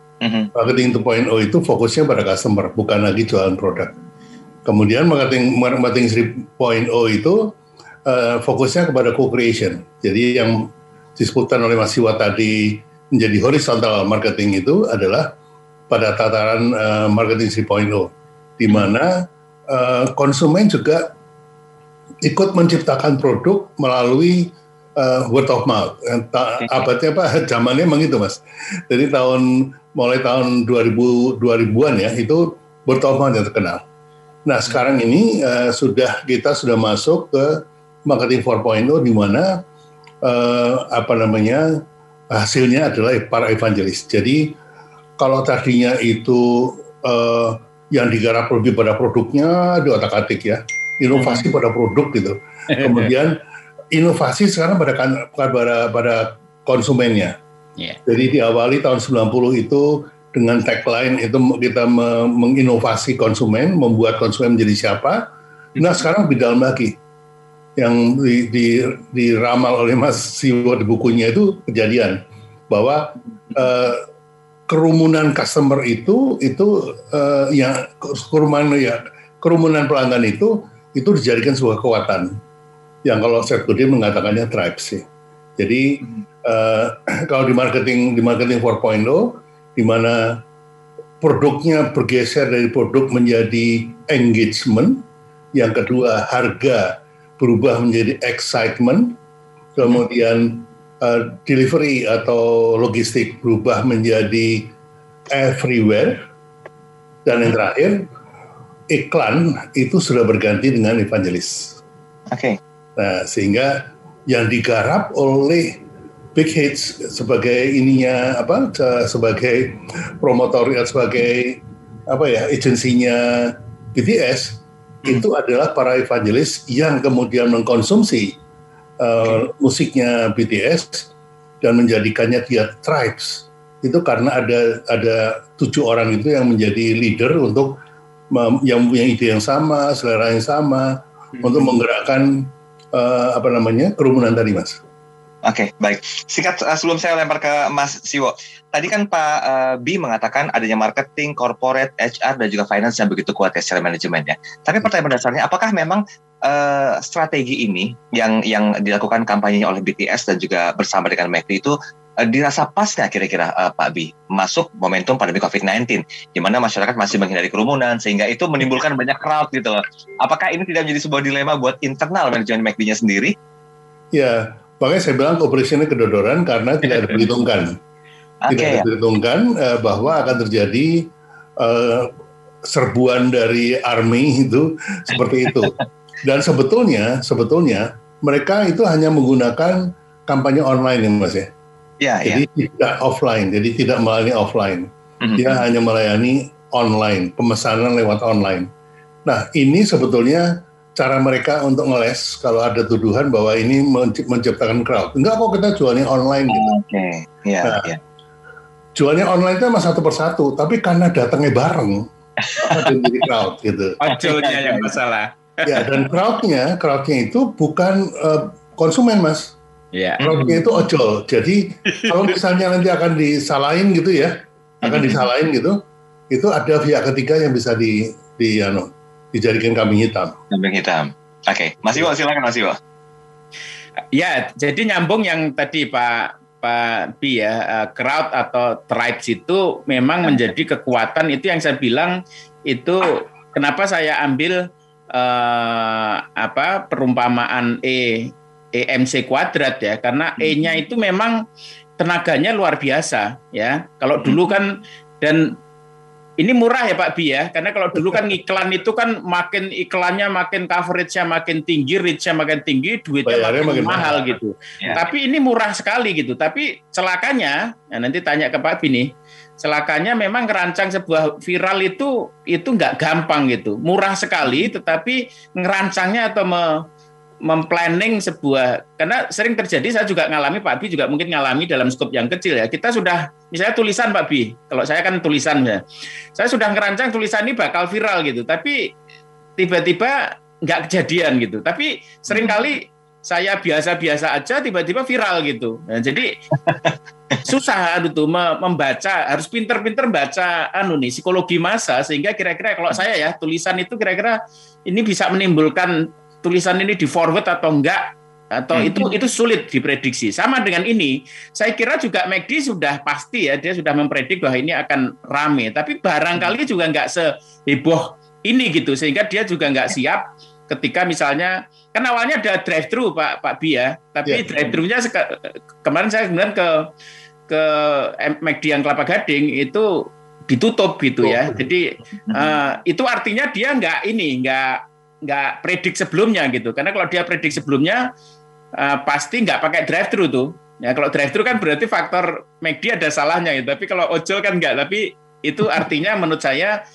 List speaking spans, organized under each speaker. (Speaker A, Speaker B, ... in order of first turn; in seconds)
Speaker A: 0.2-0.5, 26.6-26.9, 112.3-112.6, 145.4-173.3, 176.9-177.2, 178.4-178.9, 185.1-185.8, 192.0-192.4, 195.2-195.6, 206.5-208.0, 212.4-213.3, 214.2-214.9, 220.2-220.6, 224.8-225.3, 230.5-232.8, 254.2-254.5, 292.3-292.6, 296.7-297.4, 308.7-309.1
Speaker B: 0.6-3.9, 4.7-7.5, 8.1-10.6, 11.2-15.3, 15.9-19.1, 19.7-21.0, 22.2-33.8, 34.5-39.5, 40.2-41.6, 42.3-44.5, 45.2-53.4, 53.9-57.4, 58.1-65.2, 65.8-66.9, 67.8-72.2, 72.7-74.0, 74.7-82.3, 83.1-85.0, 85.6-90.2, 91.2-95.0, 95.6-99.2, 99.8-104.7, 105.3-106.2, 107.3-108.0, 108.9-111.8, 113.0-113.8, 114.3-115.8, 116.3-128.4, 129.0-131.1, 131.6-137.8, 138.3-144.8, 174.1-177.7, 178.5-181.0, 181.6-182.1, 182.7-191.5, 192.2-198.7, 199.3-206.7, 207.6-207.9, 209.0-212.0, 212.6-214.0, 215.7-219.6, 220.2-225.8, 226.3-230.3, 263.3-264.2, 331.2-331.6
Speaker C: 52.7-53.1, 214.0-215.8, 219.9-220.3, 221.9-222.3, 234.1-242.2, 242.7-244.6, 245.1-251.4, 252.0-255.5, 256.4-276.8, 277.5-285.8, 286.4-288.8, 289.6-296.3, 297.4-304.4, 304.9-308.0, 308.6-326.9, 327.5-338.0, 338.8-346.8